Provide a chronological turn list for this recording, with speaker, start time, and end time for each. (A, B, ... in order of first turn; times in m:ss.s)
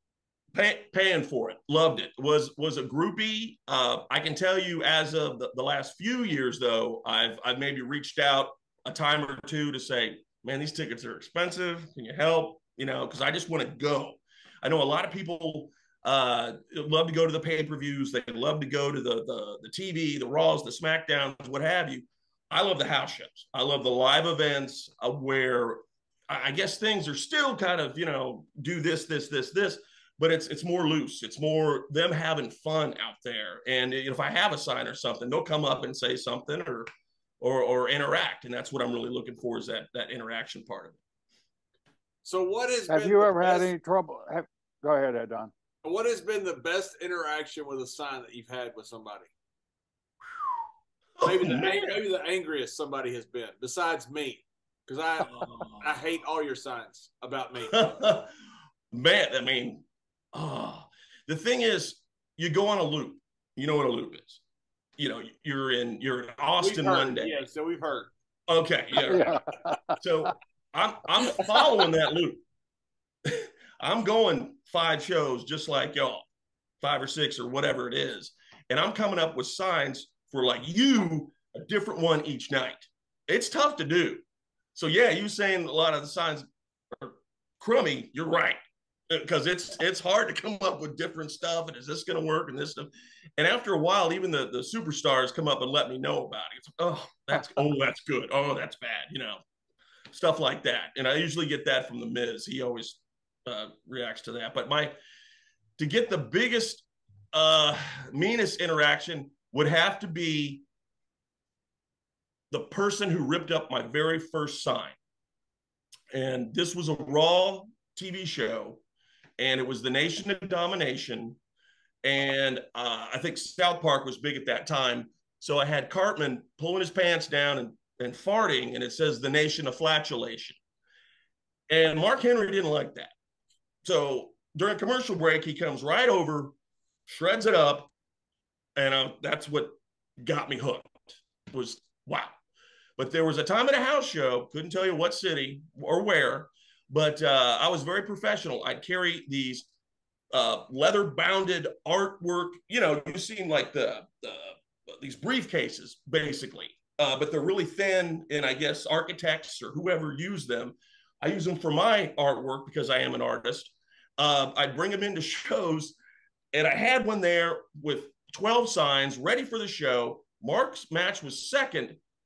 0:00.5-0:36.9 A
0:37.4-0:41.0 A
0:42.2-0:43.7 B
0:42.9-0:45.5 C
0:45.8-0:49.3 B
0:51.2-0:52.0 A
0:51.2-0:57.9 B
0:55.2-0:55.9 A
0:57.6-0:58.3 A
0:58.9-1:04.4 A
1:05.0-1:07.3 A
1:06.6-1:08.1 B
1:08.5-1:09.3 A
1:09.0-1:10.0 C
1:10.0-1:12.4 A
1:11.4-1:11.6 B
1:13.2-1:16.2 A
1:16.8-1:24.2 A
1:24.7-1:39.4 A
1:40.1-1:44.9 A
1:45.8-1:50.6 A
1:52.5-1:55.0 A
1:56.1-1:58.8 A
1:59.4-2:01.4 A
2:02.0-2:10.6 A
2:11.7-2:13.1 A
2:13.8-2:16.5 A
2:17.1-2:17.9 A
2:18.8-2:22.4 A
2:23.0-2:29.6 A
2:30.3-2:46.0 A
2:46.5-2:52.0 A